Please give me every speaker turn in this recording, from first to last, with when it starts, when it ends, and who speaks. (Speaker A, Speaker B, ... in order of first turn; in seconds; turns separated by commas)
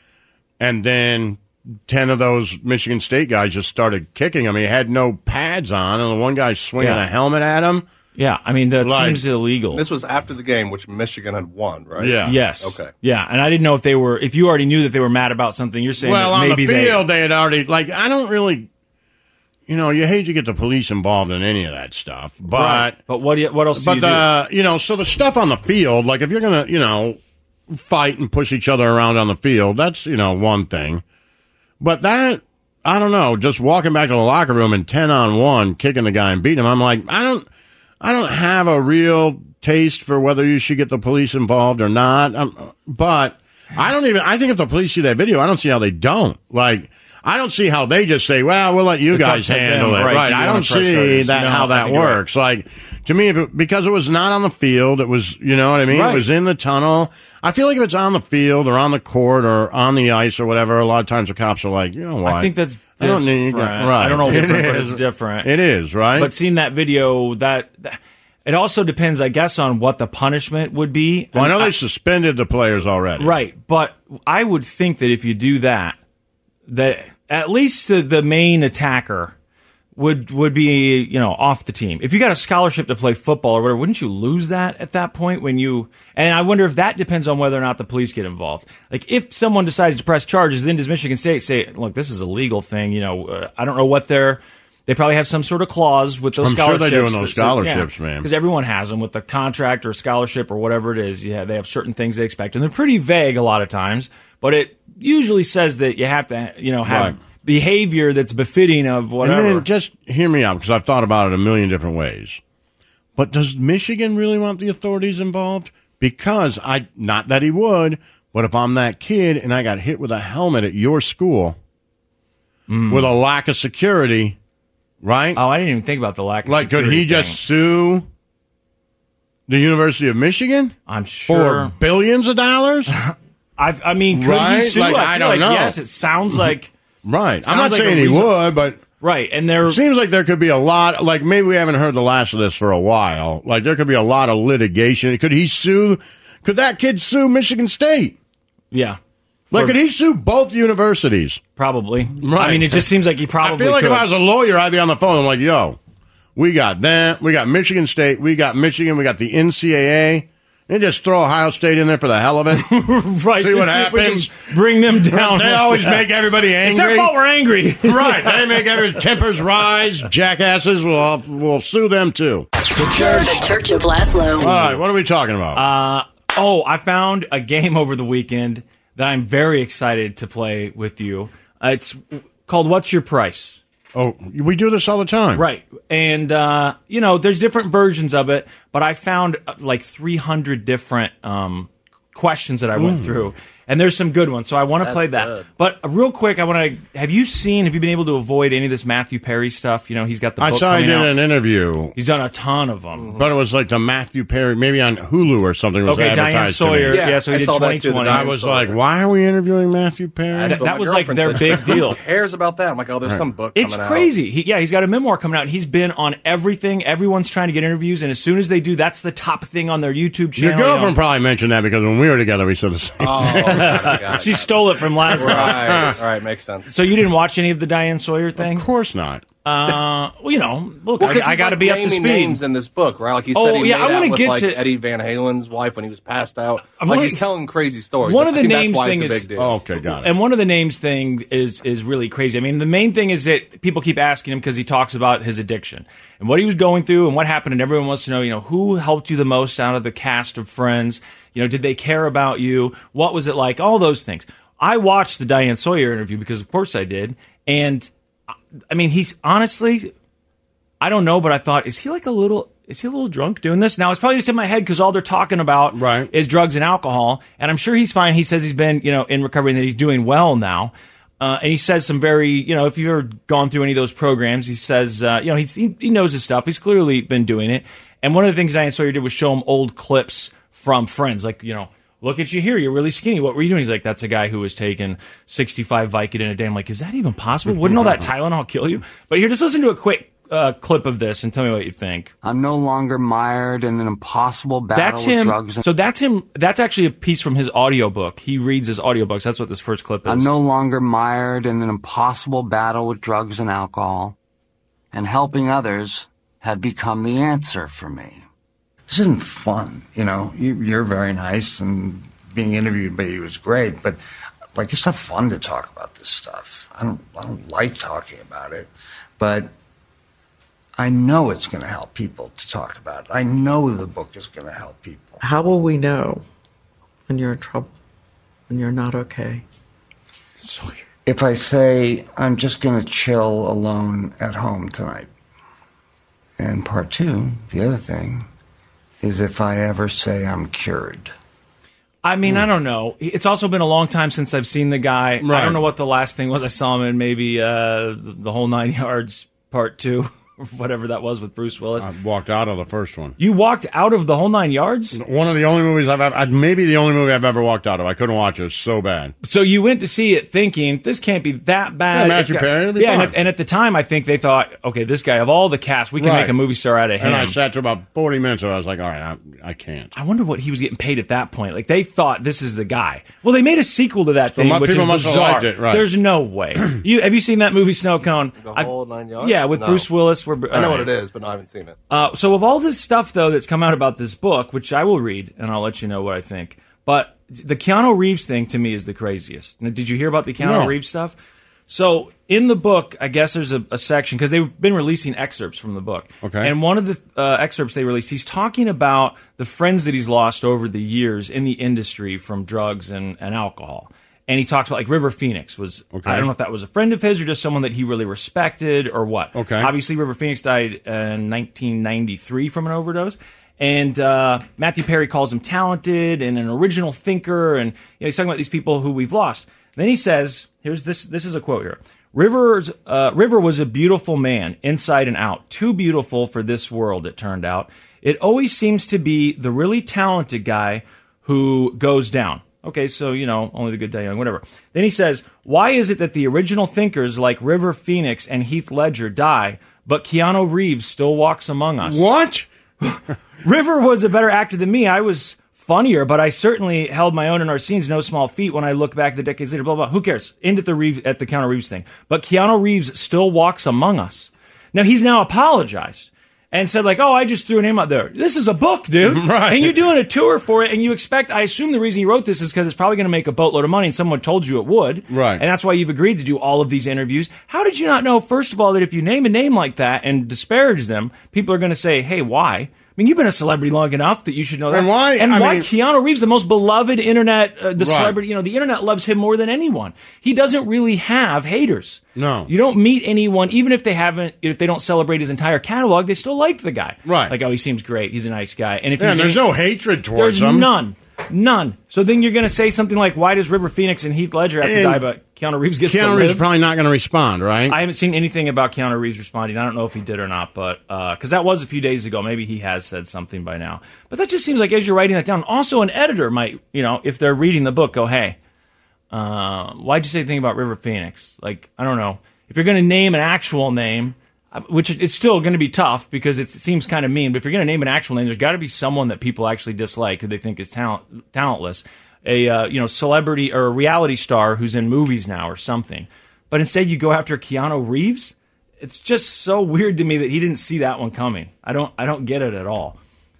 Speaker A: 0.6-7.8, Speaker B: 8.2-9.8, Speaker A: 8.8-9.2, Speaker C: 9.7-12.9, Speaker A: 12.0-12.4, Speaker B: 12.2-17.0, Speaker A: 16.0-18.7, Speaker A: 19.7-23.0, Speaker B: 22.5-24.3, Speaker A: 23.8-27.2, Speaker A: 27.7-31.0, Speaker A: 31.8-37.5, Speaker A: 38.0-66.3, Speaker B: 49.1-52.2, Speaker B: 55.9-56.2, Speaker B: 62.2-65.5, Speaker B: 66.2-71.7, Speaker A: 71.3-73.3, Speaker B: 73.2-76.0, Speaker B: 76.7-79.3, Speaker B: 80.0-109.7, Speaker A: 96.4-98.2, Speaker A: 106.8-107.2, Speaker A: 109.2-112.4, Speaker A: 113.2-121.5, Speaker B: 122.7-123.1, Speaker A: 122.9-124.3, Speaker A: 125.0-125.4, Speaker B: 125.3-127.4, Speaker A: 126.5-128.0, Speaker A: 129.5-130.8, Speaker B: 130.9-131.7, Speaker A: 131.3-132.9, Speaker B: 132.9-136.7, Speaker A: 134.1-135.8, Speaker A: 137.0-138.8, Speaker B: 137.4-138.4, Speaker B: 139.0-139.8, Speaker A: 139.6-148.2, Speaker B: 148.7-149.0, Speaker A: 149.5-151.4, Speaker B: 151.6-154.1, Speaker A: 152.2-152.9, Speaker A: 153.4-155.8, Speaker A: 156.3-162.7, Speaker B: 162.5-166.0, Speaker A: 163.4-167.1, Speaker B: 166.6-168.8, Speaker A: 167.8-172.5, Speaker D: 172.7-174.7, Speaker A: 174.4-175.6, Speaker B: 175.5-183.6, Speaker A: 183.9-185.4, Speaker B: 185.3-201.1, Speaker A: 192.8-193.3, Speaker C: 194.8-195.4, Speaker A: 200.4-201.9, Speaker B: 201.9-203.1, Speaker C: 203.0-203.3, Speaker A: 203.2-207.1, Speaker B: 205.8-208.3, Speaker C: 206.9-208.8, Speaker A: 208.1-210.6, Speaker C: 210.3-214.1, Speaker B: 210.4-212.0, Speaker B: 213.5-220.9, Speaker A: 220.4-224.1, Speaker C: 223.0-226.7, Speaker B: 223.3-225.9, Speaker A: 225.1-225.9, Speaker B: 226.7-228.6, Speaker A: 228.4-229.2, Speaker B: 229.4-232.4, Speaker C: 231.0-239.6, Speaker B: 233.3-234.6, Speaker B: 236.8-237.2, Speaker B: 238.0-239.2, Speaker A: 239.3-240.1, Speaker B: 239.9-257.9, Speaker B: 258.7-259.9, Speaker B: 260.8-292.1, Speaker A: 265.7-266.1, Speaker A: 287.5-288.1, Speaker E: 292.2-295.6, Speaker B: 294.7-300.3, Speaker E: 300.0-304.1, Speaker E: 304.9-308.2, Speaker E: 308.9-314.0, Speaker E: 314.5-319.5, Speaker E: 320.8-325.2, Speaker F: 325.2-326.2, Speaker F: 327.1-327.7, Speaker F: 328.5-329.4, Speaker B: 330.4-330.8, Speaker E: 331.0-335.1, Speaker E: 336.4-338.3, Speaker E: 339.0-341.1, Speaker B: 342.0-351.9, Speaker A: 345.2-345.6, Speaker A: 351.8-353.1, Speaker B: 353.2-355.0, Speaker A: 354.9-359.1, Speaker B: 359.2-367.4, Speaker A: 361.9-363.1, Speaker A: 366.0-366.3, Speaker A: 367.0-369.9, Speaker B: 369.9-380.9, Speaker A: 374.4-375.9, Speaker C: 378.4-379.9, Speaker C: 380.5-381.8, Speaker B: 381.9-391.1, Speaker A: 390.4-390.7, Speaker B: 391.7-442.1, Speaker A: 396.2-396.5, Speaker A: 405.9-406.3, Speaker A: 409.3-409.7, Speaker A: 441.8-442.5, Speaker B: 442.8-489.4, Speaker A: 459.0-459.8, Speaker A: 465.1-465.4, Speaker A: 474.7-475.7, Speaker A: 477.8-478.2, Speaker A: 482.1-482.5, Speaker A: 487.1-487.3, Speaker A: 489.0-490.7, Speaker B: 490.1-496.4, Speaker A: 494.6-495.0, Speaker A: 495.9-497.8, Speaker B: 497.7-508.4, Speaker B: 509.1-533.0